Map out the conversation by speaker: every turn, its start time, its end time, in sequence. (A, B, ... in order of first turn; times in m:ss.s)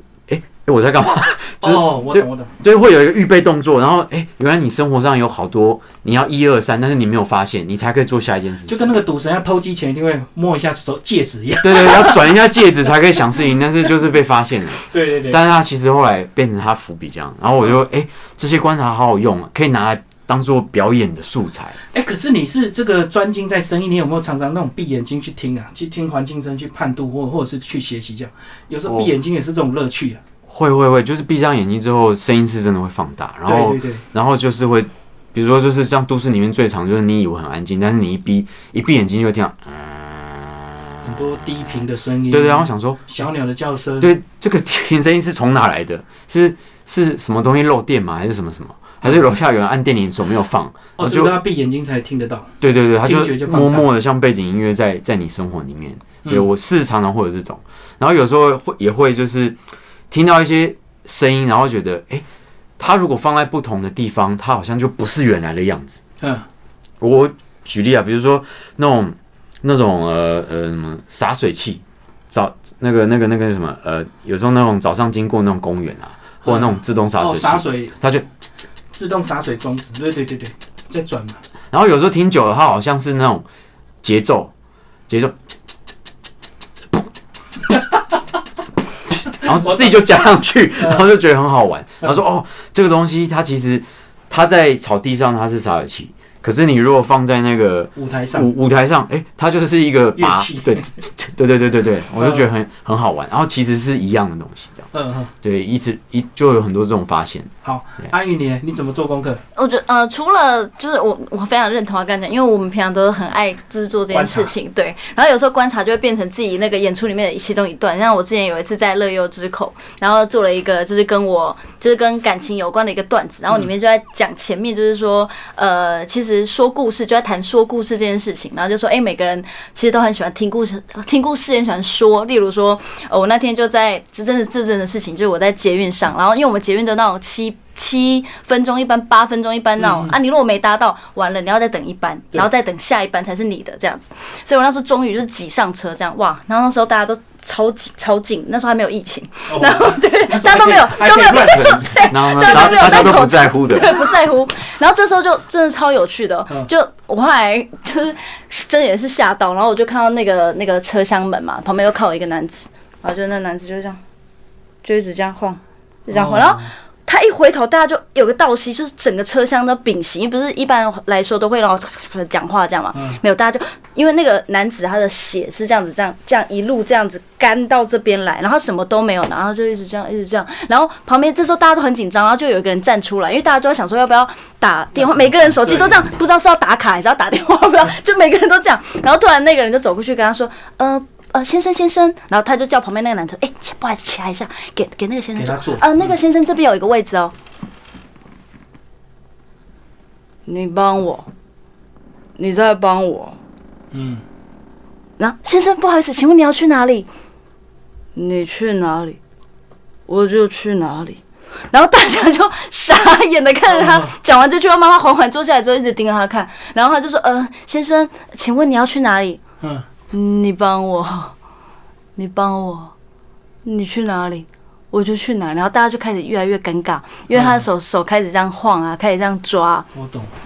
0:00.3-0:08.9 A
0:01.6-0:02.5 B
0:08.7-0:12.4 B
0:11.6-0:21.8 A
0:14.9-0:15.4 B
0:21.9-0:30.2 B
0:30.5-0:39.8 A
0:33.5-0:34.0 B
0:41.0-0:44.1 B
0:42.3-0:43.0 A
0:44.0-0:51.4 A
0:51.0-0:52.5 B
0:52.6-0:59.6 A
0:53.0-0:53.9 B
1:00.1-1:02.2 A
1:02.8-1:06.0 A
1:06.2-1:06.5 B
1:07.0-1:18.2 A
1:16.4-1:18.0 B
1:18.9-1:21.4 B
1:21.7-1:23.5 A
1:24.0-1:24.5 A
1:25.1-1:25.4 A
1:29.3-1:44.9 A
1:29.4-1:30.0 B
1:38.0-1:38.5 B
1:40.2-1:40.9 B
1:42.2-1:42.5 B
1:44.9-1:45.3 B
1:45.4-1:47.5 A
1:47.6-1:49.4 B
1:49.6-2:44.0 C
1:54.1-1:54.5 B
2:19.8-2:20.2 B
2:29.5-2:33.2 B
2:31.5-2:33.9 A
2:44.8-3:17.3 C
2:46.1-2:46.7 B
2:52.9-2:53.2 B
3:05.0-3:06.1 B
3:15.4-3:16.1 B
3:20.5-3:21.3 C
3:22.4-3:23.4 C
3:23.9-3:24.2 B
3:25.2-3:27.1 C
3:28.2-3:29.2 C
3:30.1-3:39.4 C
3:33.7-3:34.2 B
3:40.1-3:41.3 C
3:42.2-3:42.9 C
3:43.6-3:49.9 C
3:47.3-3:47.6 B
3:49.9-3:50.3 B